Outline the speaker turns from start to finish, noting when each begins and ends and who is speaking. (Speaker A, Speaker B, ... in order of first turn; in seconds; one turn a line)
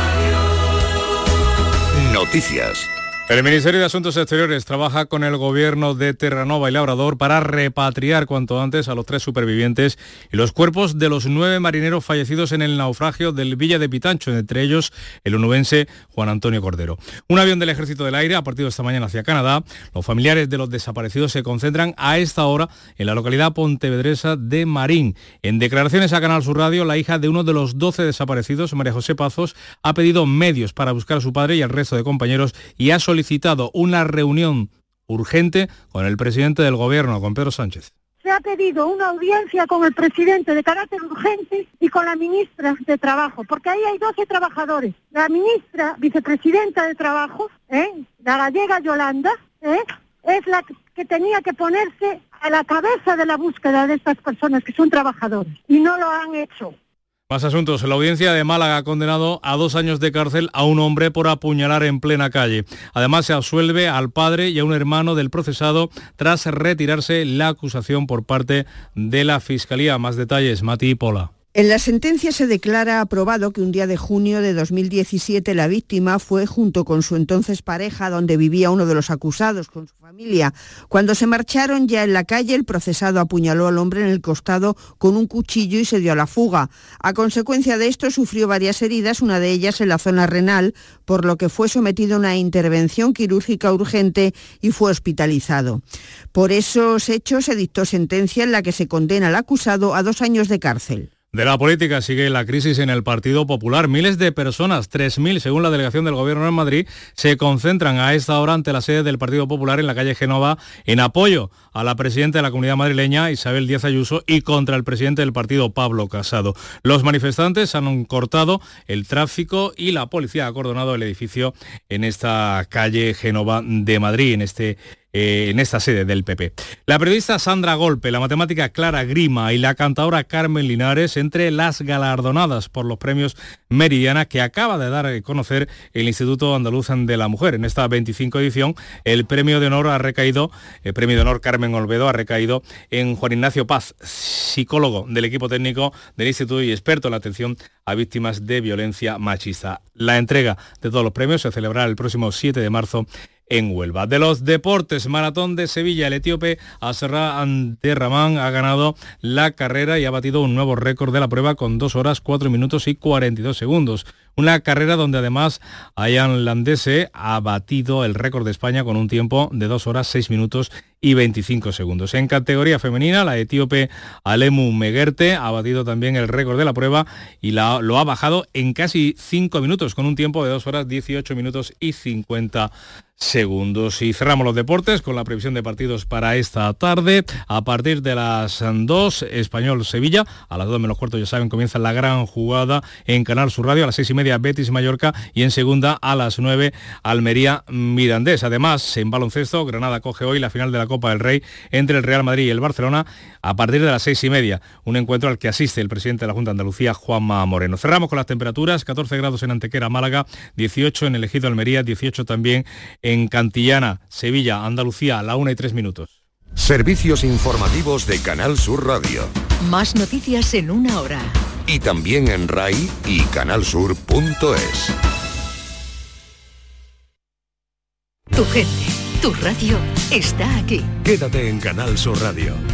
Speaker A: 1.9-2.9
Speaker B: 3.3-37.9
Speaker C: 38.2-56.8
Speaker B: 57.3-71.3
Speaker D: 71.5-95.8
Speaker D: 96.3-101.1
Speaker B: 101.3-216.1
Speaker A: 216.6-219.3
Speaker E: 219.6-221.4
Speaker A: 221.7-224.9
Speaker E: 228.3-230.9
Speaker A: 231.5-232.4